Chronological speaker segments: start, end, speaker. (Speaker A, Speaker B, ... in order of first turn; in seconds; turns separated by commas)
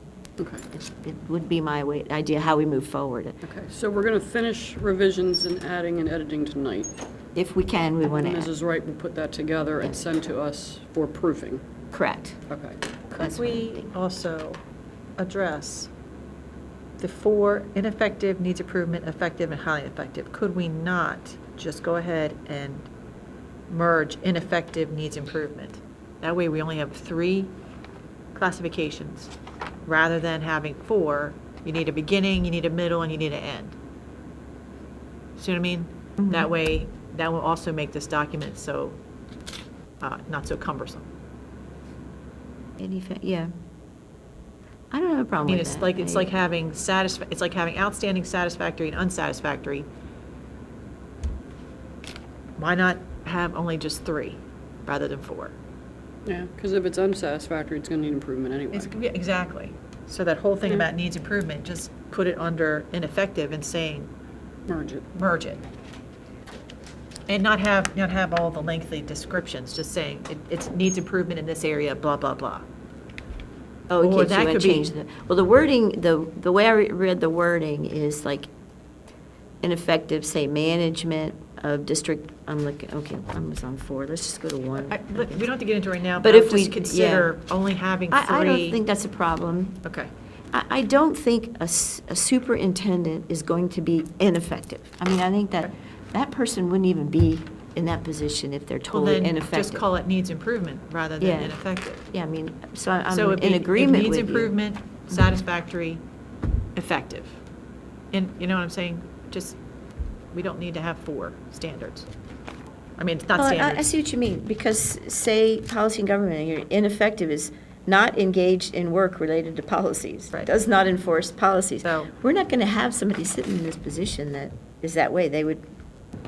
Speaker A: 0.4-0.7, Speaker B: 0.7-3.4, Speaker A: 3.4-6.9, Speaker B: 7.3-8.5, Speaker A: 8.1-11.6, Speaker B: 11.9-12.4, Speaker A: 12.5-12.8, Speaker B: 13.1-13.9, Speaker C: 13.1-14.6, Speaker C: 15.2-15.9, Speaker C: 17.0-22.9, Speaker C: 23.7-27.5, Speaker C: 28.3-29.3, Speaker C: 29.9-33.8, Speaker C: 35.4-39.0, Speaker B: 36.2-36.5, Speaker C: 40.0-41.1, Speaker B: 42.8-43.5, Speaker B: 44.9-46.3, Speaker C: 45.4-49.9, Speaker C: 52.6-55.5, Speaker A: 56.2-59.0, Speaker C: 58.7-64.1, Speaker A: 64.7-65.0, Speaker C: 65.1-65.6, Speaker C: 67.3-72.7, Speaker B: 73.9-78.5, Speaker C: 74.0-74.9, Speaker B: 79.6-85.5, Speaker C: 84.8-88.8, Speaker B: 86.2-87.3, Speaker B: 88.1-89.8, Speaker C: 89.8-90.1, Speaker B: 90.5-99.8, Speaker C: 98.9-102.0, Speaker B: 101.2-101.6, Speaker B: 102.1-104.5, Speaker C: 103.1-106.0, Speaker C: 106.8-107.4, Speaker C: 108.1-109.6, Speaker C: 110.3-112.1, Speaker C: 113.0-113.8, Speaker B: 113.3-125.7, Speaker C: 121.8-122.1